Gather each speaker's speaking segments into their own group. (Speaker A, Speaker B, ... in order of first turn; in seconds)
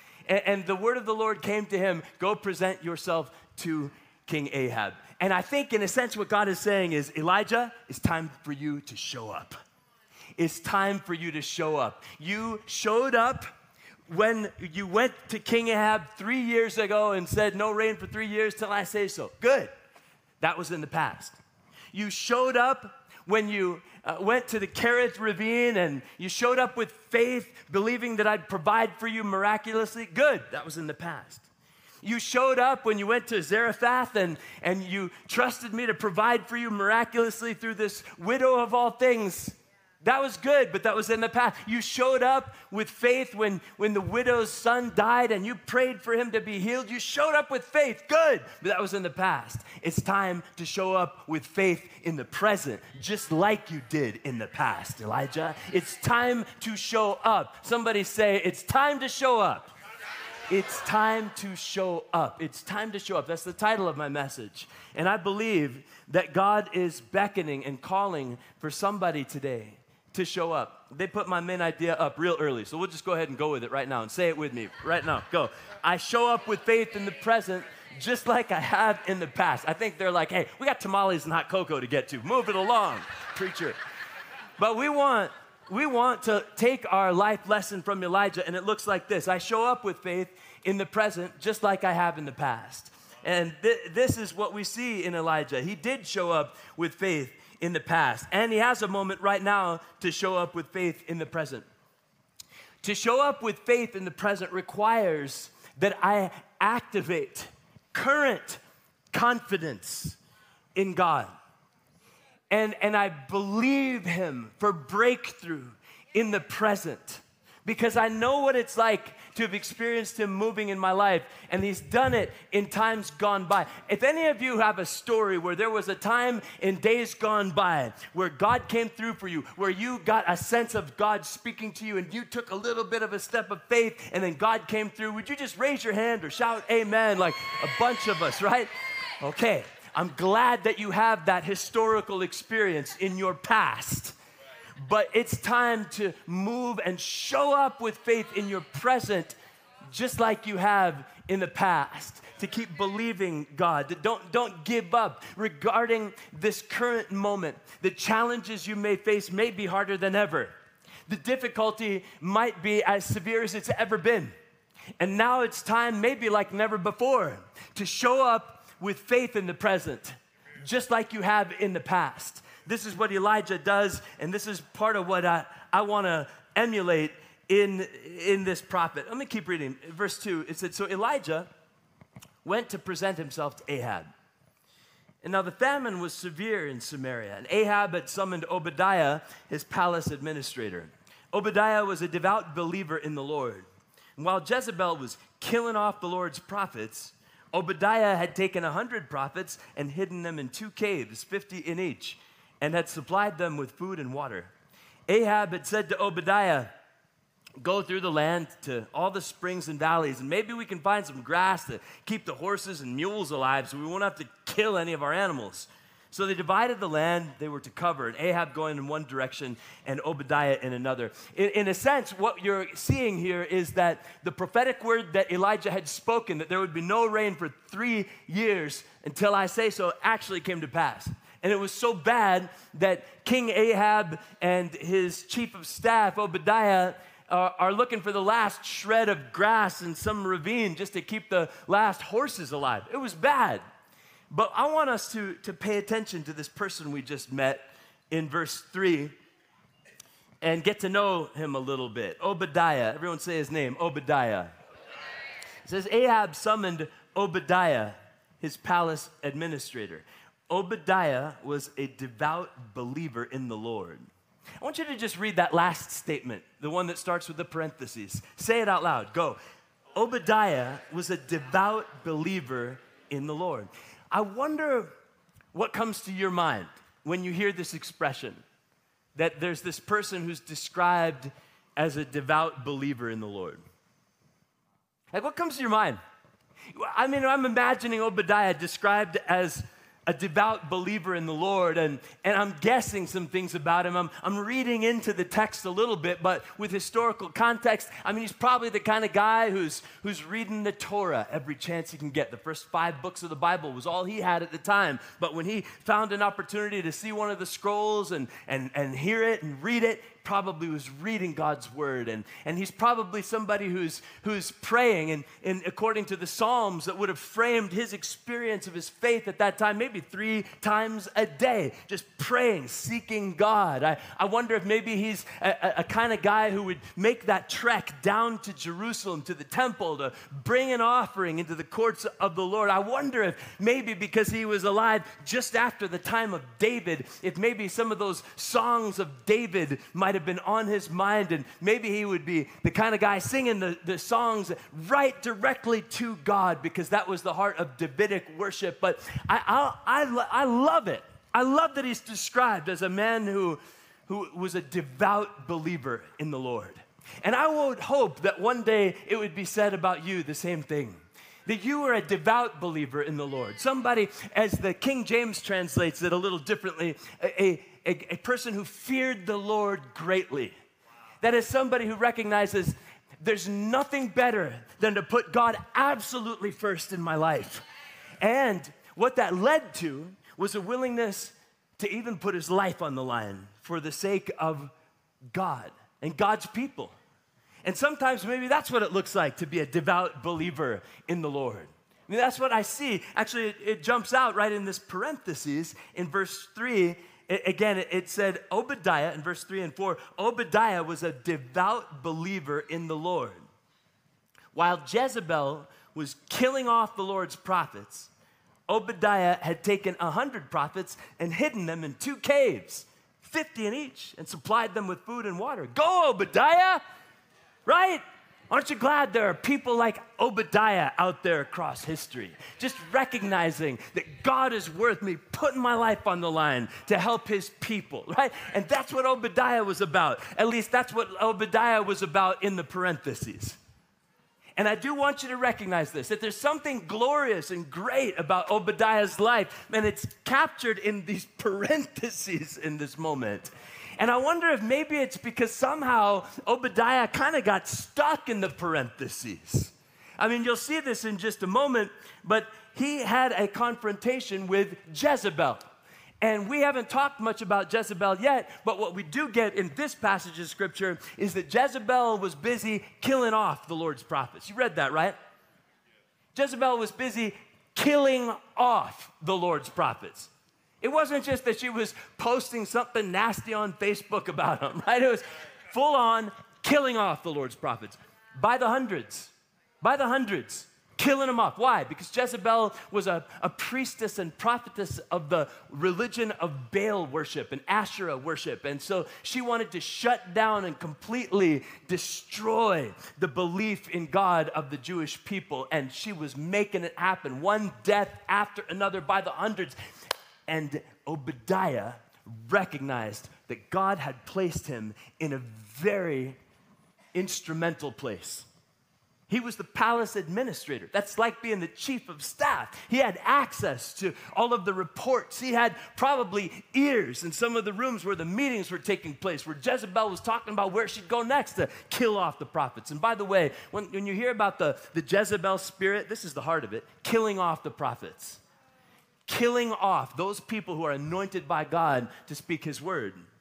Speaker A: 0.3-9.6, 10.4-13.5, 14.1-19.7, 20.4-21.4, 21.9-31.4, 32.0-59.7, 60.5-83.8, 84.6-101.7, 102.8-110.2, 110.7-111.3, 112.5-144.2, 144.8-149.3, 149.9-160.5, 161.1-164.3, 165.0-181.5, 182.4-184.1, 185.2-193.7, 194.2-204.5, 205.1-206.7, 207.6-243.6, 244.3-249.2, 250.4-254.5, 255.6-264.1, 264.6-269.4, 269.9-274.9, 275.5-278.4, 279.1-283.6, 285.1-286.0, 286.7-370.6, 371.2-377.6, 378.2-384.7, 385.3-386.9, 387.6-403.4, 404.5-408.1, 408.7-416.8, 417.6-433.6, 434.6-455.6, 456.2-465.1, 466.3-499.8, 500.5-506.4, 507.1-508.5, 509.3-528.4, 529.3-533.2